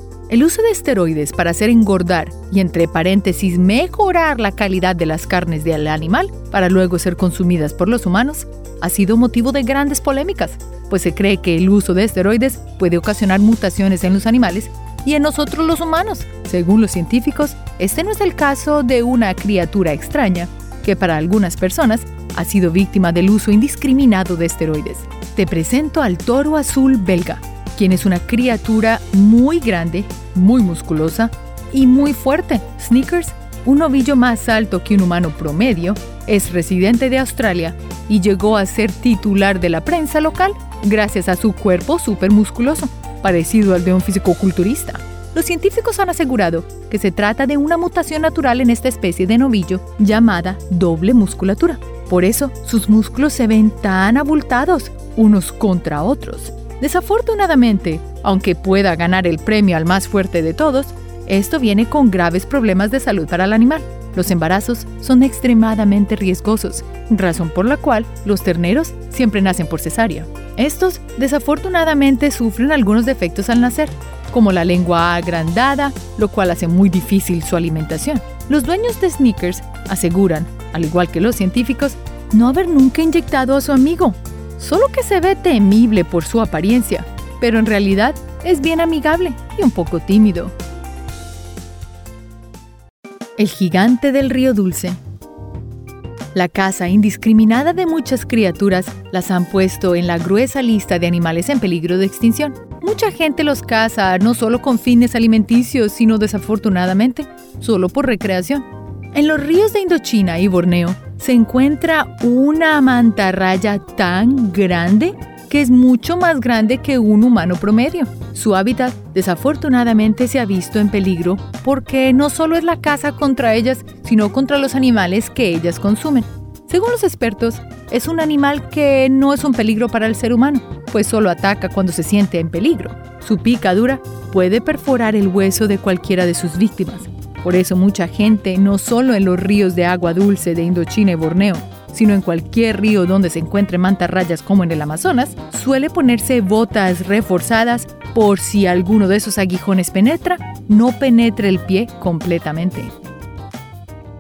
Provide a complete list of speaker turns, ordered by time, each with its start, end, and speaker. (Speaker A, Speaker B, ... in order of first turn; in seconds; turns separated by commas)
Speaker A: 0.3-90.5, Speaker A: 93.4-95.0, Speaker A: 96.3-152.9